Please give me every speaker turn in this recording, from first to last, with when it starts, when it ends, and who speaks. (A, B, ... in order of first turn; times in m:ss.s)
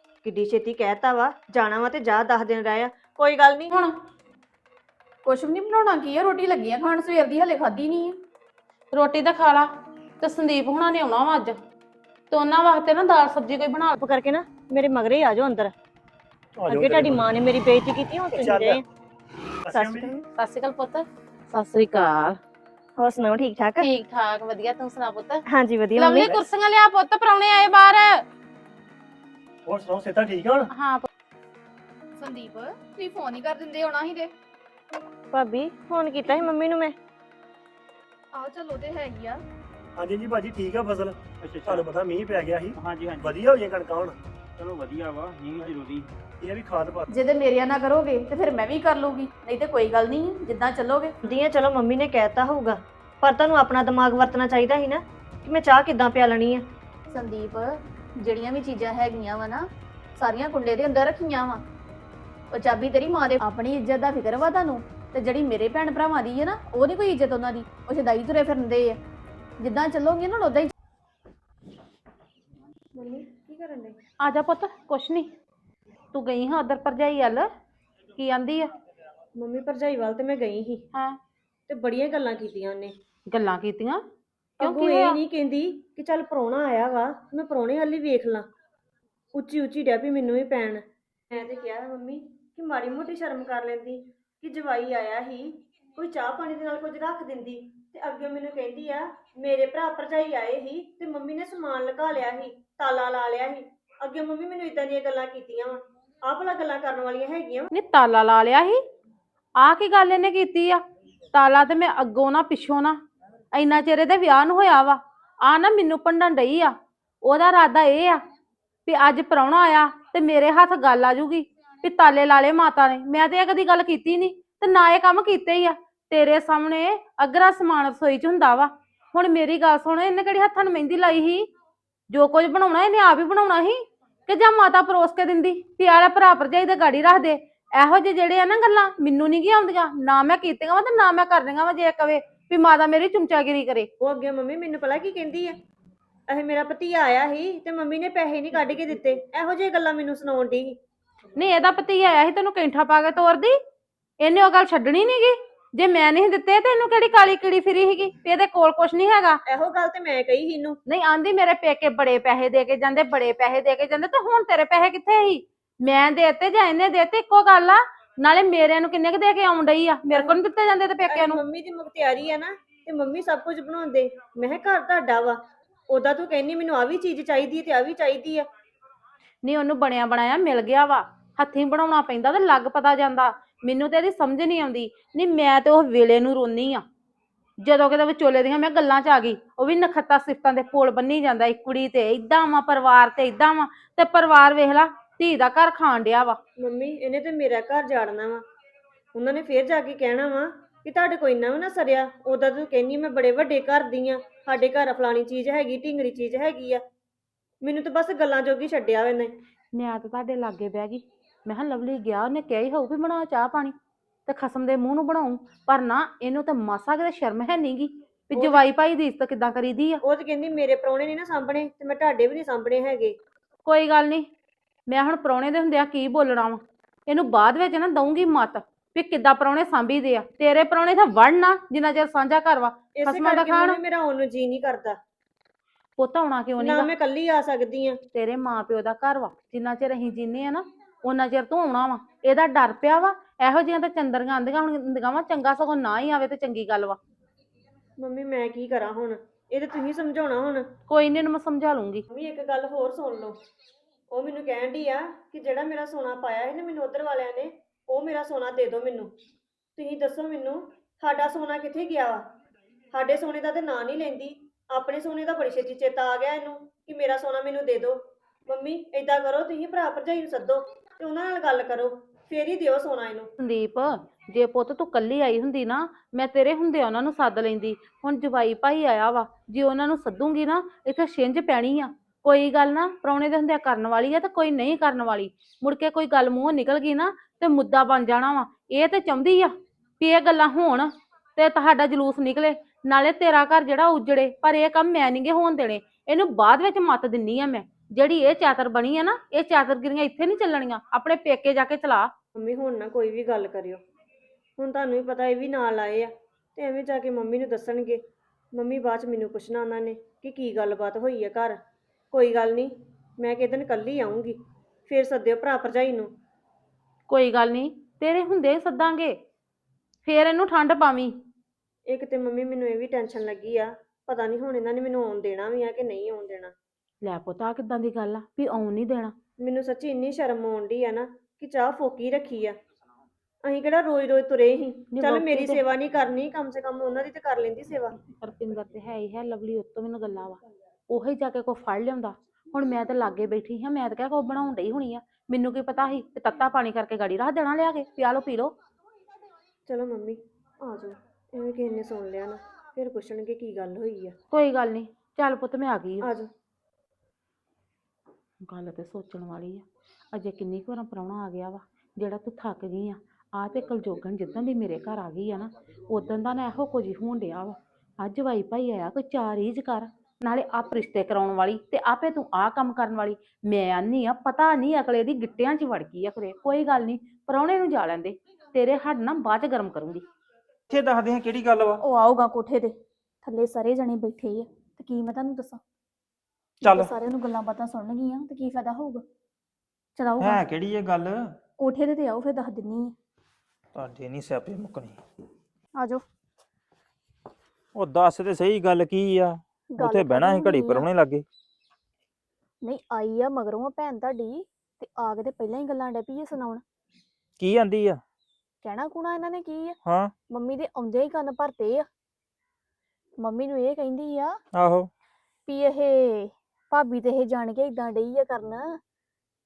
0:00.2-0:03.7 A
0:05.2-0:08.2 B
0:08.9-0:09.7 C
0:10.2-0:11.6 C
0:12.3-0:14.0 C
0:14.0-0:15.7 A
0:16.6-0:17.4 D
0:16.6-0:18.8 A
0:18.3-0:18.8 D
0:19.7-0:20.2 D
0:19.7-0:20.2 A
0:20.4-0:22.4 C
0:23.0-0:23.8 A
0:23.8-0:25.4 C
0:25.5-0:26.4 A
0:26.0-0:28.2 C
0:29.6-0:30.7 D
0:30.7-0:31.0 C
0:32.2-0:34.3 B
0:35.3-0:36.9 A
0:38.3-0:39.4 B
0:40.0-0:44.2 D
0:41.4-0:41.8 E
0:42.8-0:43.4 E
0:44.6-0:46.1 E
0:46.4-0:47.1 D
0:47.1-0:51.1 B
0:51.2-0:56.6 A
0:57.1-0:59.6 B
1:00.2-1:01.6 B
1:02.5-1:09.0 B
1:09.6-1:10.7 B
1:12.9-1:14.0 A
1:14.2-1:15.3 C
1:16.1-1:17.5 C
1:18.2-1:18.7 C
1:19.4-1:20.8 A
1:20.9-1:21.2 C
1:21.7-1:22.9 A
1:23.3-1:24.0 C
1:24.6-1:28.5 A
1:24.6-1:25.2 C
1:29.3-1:47.7 A
1:47.7-1:48.8 C
1:49.6-1:50.8 C
1:51.3-1:53.0 C
1:53.5-1:58.2 C
1:58.9-2:11.4 C
2:12.1-2:23.9 C
2:24.0-2:25.5 A
2:26.3-2:30.8 A
2:31.4-2:33.6 C
2:34.2-2:39.4 C
2:39.4-2:40.8 A
2:40.9-2:51.4 C
2:50.1-2:50.4 A
2:51.1-2:55.4 A
2:55.9-2:58.4 A
2:59.4-3:06.8 C
3:07.6-3:16.4 C
3:16.6-3:18.4 A
3:19.1-3:26.8 A
3:27.6-3:29.3 A
3:29.7-3:33.7 C
3:34.3-3:40.0 C
3:38.3-3:38.6 A
3:40.0-3:43.2 A
3:43.6-3:44.3 C
3:44.9-3:53.8 C
3:53.0-3:55.0 A
3:56.0-3:56.9 C
3:56.6-3:58.0 A
3:58.1-4:07.0 C
4:08.0-4:10.7 A
4:10.9-4:12.0 C
4:12.1-4:13.4 A
4:14.1-4:19.1 A
4:19.8-4:22.2 A
4:22.9-4:33.3 A
4:33.4-5:02.1 C
5:02.3-5:03.8 A
5:04.6-5:08.0 A
5:08.5-5:11.6 A
5:12.1-5:16.1 A
5:17.1-5:19.2 C
5:20.0-5:21.1 C
5:21.9-5:26.5 A
5:27.0-5:29.1 C
5:29.4-5:32.6 A
5:33.4-5:38.0 A
5:34.9-5:35.7 C
5:38.2-5:48.5 C
5:49.7-5:54.2 A
5:54.3-5:56.1 C
5:56.0-5:56.3 A
5:58.4-6:20.0 C
6:20.7-6:21.8 E
6:21.8-6:22.7 B
6:23.2-6:25.6 B
6:26.6-6:26.9 E
6:26.6-6:29.0 B
6:30.0-6:30.4 B
6:30.2-6:31.3 E
6:31.6-6:32.9 B
6:33.7-6:35.0 E
6:37.7-6:41.2 E
6:39.7-6:40.9 B
6:42.6-6:46.6 B
6:47.4-6:48.0 E
6:48.6-6:49.8 B
6:49.8-6:50.1 E
6:50.3-6:51.8 B
6:53.2-6:54.3 B
6:54.5-6:54.9 E
6:55.5-6:58.8 B